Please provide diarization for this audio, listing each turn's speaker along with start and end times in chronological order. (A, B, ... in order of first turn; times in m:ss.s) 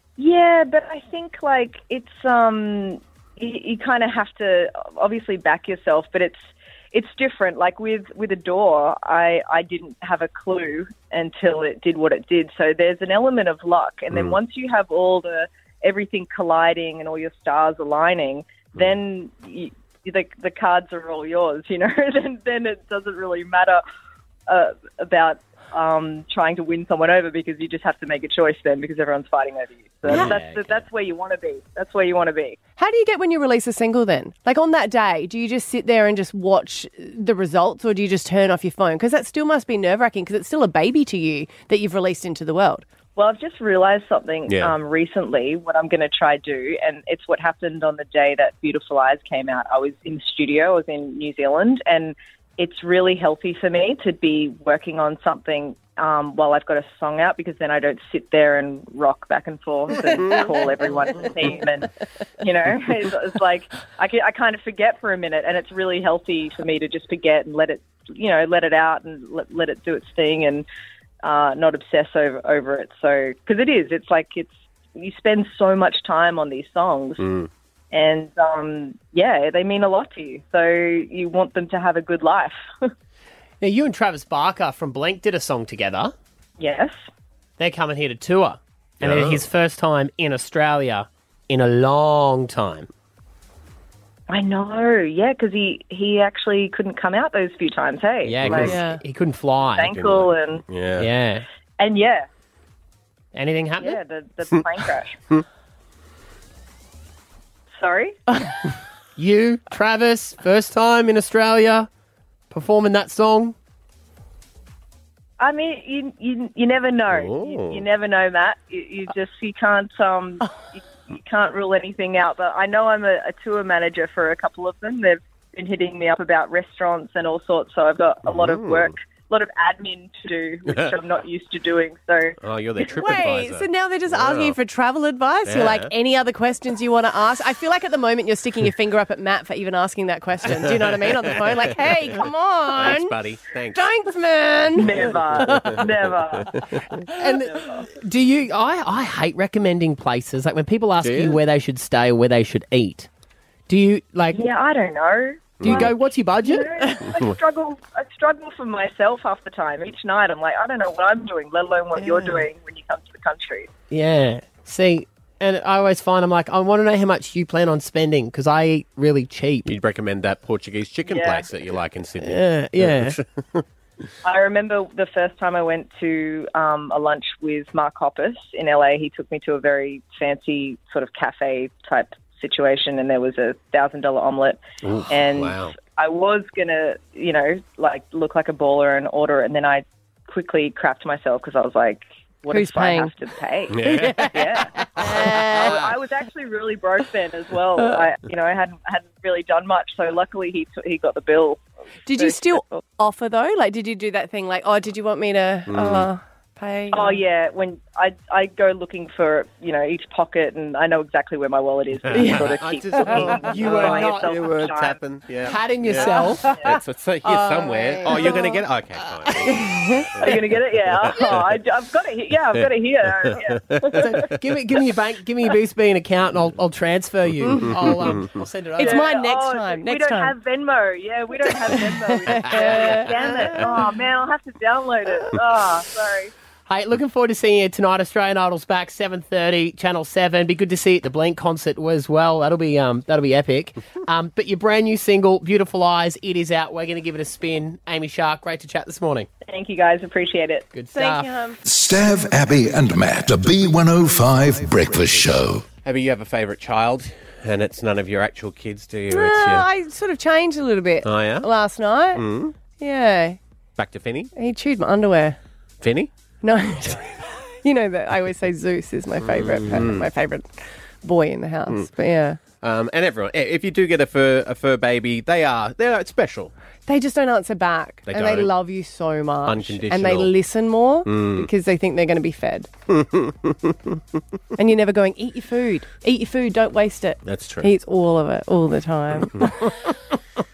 0:00.2-0:23.8 A
0:24.5-0:32.6 A
0:30.1-0:30.8 B
0:32.8-0:42.8 C
0:43.2-1:01.9 A
0:44.5-0:44.8 D
1:00.0-1:00.6 D
1:02.4-1:10.7 A
1:11.2-1:17.2 A
1:17.2-1:17.5 D
1:17.9-1:22.6 A
1:23.6-1:26.1 B
1:26.6-1:27.0 A
1:27.6-1:32.9 B
1:29.0-1:29.4 D
1:34.3-1:38.8 A
1:38.2-1:39.9 B
1:38.6-1:39.0 C
1:39.8-1:40.6 A
1:39.8-1:41.1 D
1:41.0-1:41.4 B
1:41.8-1:42.3 A
1:43.3-1:44.0 B
1:43.8-1:45.2 A
1:47.7-1:48.2 A
1:49.2-1:51.9 B
1:52.5-1:53.6 B
1:55.4-2:12.4 A
1:57.1-1:57.8 D
2:08.3-2:08.9 D
2:12.4-2:14.6 D
2:12.8-2:23.2 C
2:15.5-2:15.9 D
2:20.5-2:23.9 D
2:23.7-2:25.9 C
2:24.7-2:26.6 A
2:27.1-2:33.1 B
2:27.5-2:27.9 A
2:31.0-2:31.4 D
2:33.7-2:34.4 B
2:34.3-2:43.7 A
2:35.6-2:35.9 D
2:35.6-2:36.7 B
2:37.1-2:37.4 D
2:42.0-2:42.4 C
2:43.9-2:49.7 B
2:49.7-2:53.6 D
2:51.0-2:51.5 A
2:52.2-2:53.2 B
2:54.2-3:21.6 A
3:04.8-3:05.8 D
3:12.5-3:13.1 C
3:13.7-3:15.8 D
3:13.8-3:15.8 C
3:22.1-3:27.2 C
3:22.1-3:22.8 A
3:25.7-3:26.1 D
3:26.9-3:35.0 A
3:32.0-3:41.6 D
3:32.1-3:32.5 C
3:33.2-3:34.5 B
3:35.4-3:36.5 B
3:36.1-3:36.7 C
3:37.2-3:38.6 C
3:39.4-3:40.4 C
3:40.2-3:44.3 A
3:42.5-3:43.9 D
3:43.9-3:49.1 B
3:47.4-3:47.7 C
3:47.7-3:48.4 D
3:48.8-3:50.4 C
3:48.8-3:56.3 A
3:51.7-3:53.1 C
3:53.1-3:53.7 D
3:56.7-4:09.3 B
4:09.5-4:10.7 A
4:10.7-4:11.3 B
4:10.9-4:11.6 C
4:11.6-4:15.7 E
4:15.8-4:19.7 D
4:19.1-4:23.4 C
4:21.0-4:21.5 D
4:22.1-4:22.6 D
4:23.8-4:24.3 D
4:24.4-4:25.4 C
4:25.8-4:26.1 D
4:26.4-4:32.4 C
4:29.2-4:30.1 D
4:32.6-4:36.5 D
4:36.9-4:42.7 C
4:38.1-4:38.5 D
4:39.5-4:40.4 D
4:41.1-4:41.5 D
4:42.9-4:44.0 D
4:44.6-4:49.7 C
4:47.2-4:47.7 D
4:49.4-4:49.7 D